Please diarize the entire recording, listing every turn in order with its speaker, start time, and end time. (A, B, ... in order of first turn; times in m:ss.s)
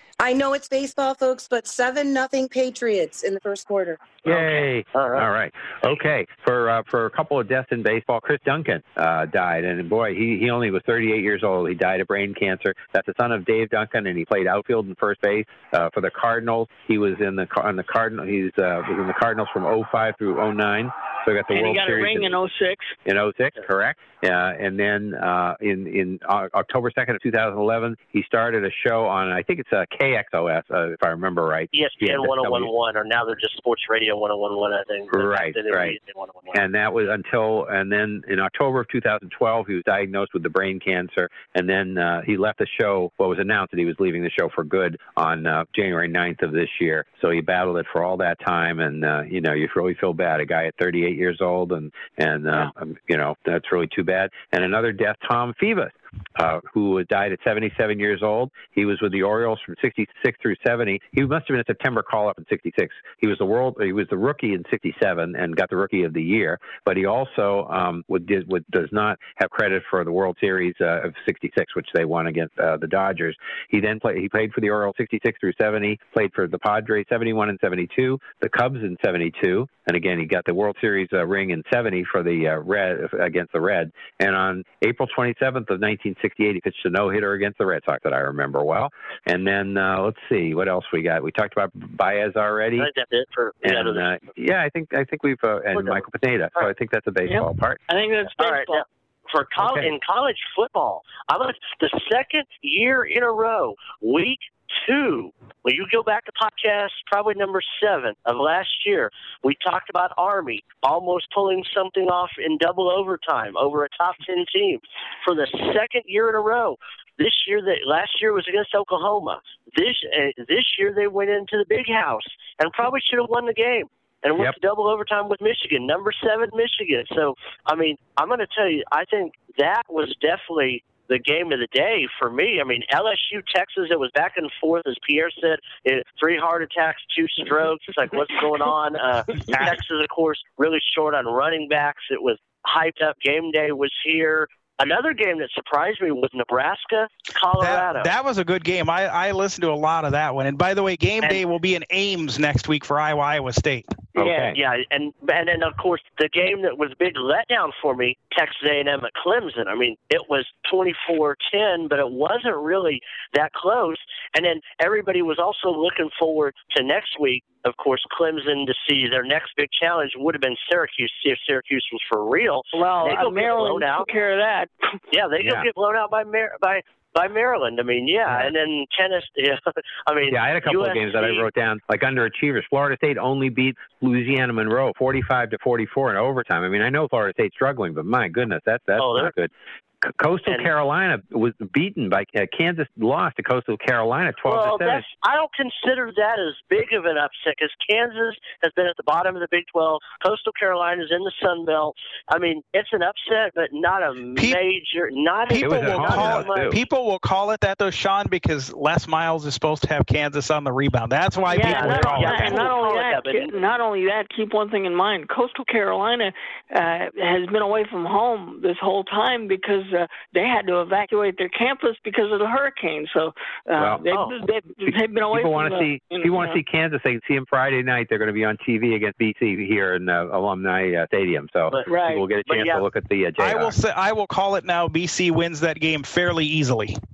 0:00.2-0:04.6 A
0:04.2-0:22.3 B
0:04.9-0:05.2 C
0:21.5-0:22.9 D
0:23.0-0:32.7 B
0:31.7-0:36.6 C
0:35.1-0:36.0 B
0:36.5-1:32.9 B
1:32.8-1:34.1 C
1:33.6-1:37.8 B
1:35.7-1:36.0 C
1:37.2-1:38.8 D
1:38.4-2:28.1 C
1:39.6-1:39.9 B
2:27.6-2:33.9 E
2:34.1-2:34.6 D
2:34.2-2:34.6 B
2:34.6-2:54.1 C
2:52.7-2:54.7 D
2:55.1-3:01.5 C
2:55.4-2:55.7 B
3:00.3-3:09.5 B
3:09.0-3:09.3 C
3:10.0-3:15.1 B
3:14.4-3:26.7 C
3:25.5-3:32.7 E
3:25.6-3:26.8 B
3:31.5-3:46.6 D
3:31.6-3:33.5 C
3:43.7-3:44.0 B
3:44.9-3:53.7 B
3:51.9-3:52.2 D
3:52.4-3:52.8 C
3:53.4-3:56.9 E